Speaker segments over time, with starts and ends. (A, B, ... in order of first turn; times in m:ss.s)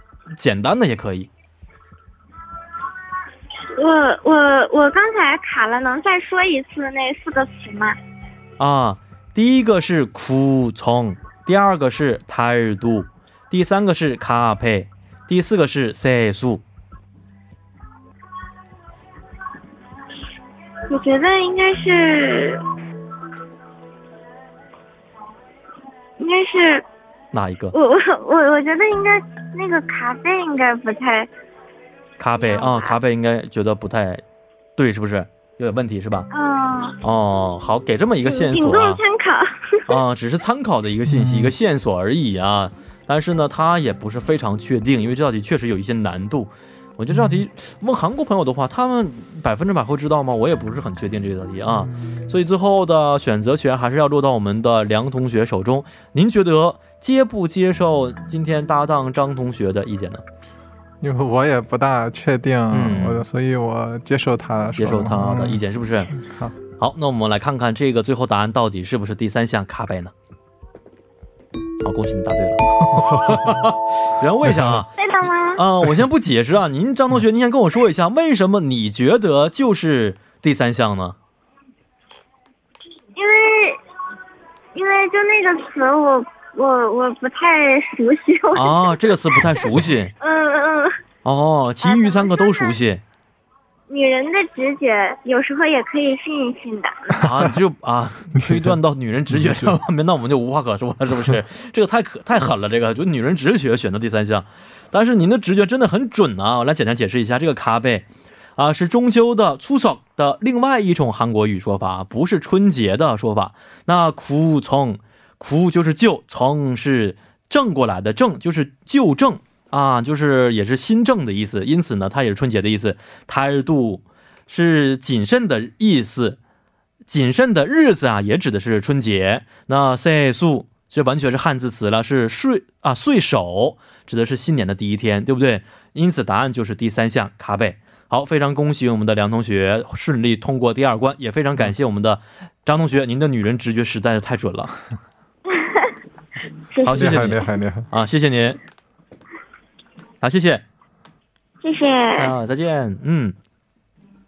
0:00.4-0:01.3 A
0:03.8-0:08.0 B
0:08.6-0:16.6 A
0:20.9-0:22.6 B
0:26.2-0:26.8 B
0:27.3-0:27.8 A
0:27.7-0:31.3 B
0:32.2-0:34.2 A
0:32.4-0:33.0 B
0:34.8-0:36.3 A
0:36.3-0:37.0 B
0:37.0-0:39.0 A
0:38.3-0:40.0 B
0:39.9-1:00.2 A
0:41.1-0:41.5 C
0:47.1-0:47.5 C
0:51.7-0:52.4 C
1:01.0-1:06.6 C
1:02.7-1:03.2 A
1:04.8-1:06.1 A
1:06.8-1:10.1 A
1:11.8-1:21.2 A
1:14.5-1:14.8 C
1:15.0-1:15.6 B
1:23.2-1:23.8 B
1:24.8-1:29.7 B
1:28.5-1:30.1 A
1:30.2-1:30.9 B
1:31.2-1:33.0 A
1:31.8-1:32.8 B
1:33.9-1:37.2 B
1:37.2-1:48.1 A
1:37.2-1:37.5 C
1:38.4-1:38.8 C
1:39.3-1:39.8 C
1:48.6-2:06.4 A
2:07.1-2:24.7 A
2:25.5-2:25.9 B
2:26.7-2:27.1 B
2:26.8-2:28.6 A
2:26.9-2:27.9 C
2:30.2-2:30.6 A
2:31.6-2:32.3 B
2:32.2-2:33.4 A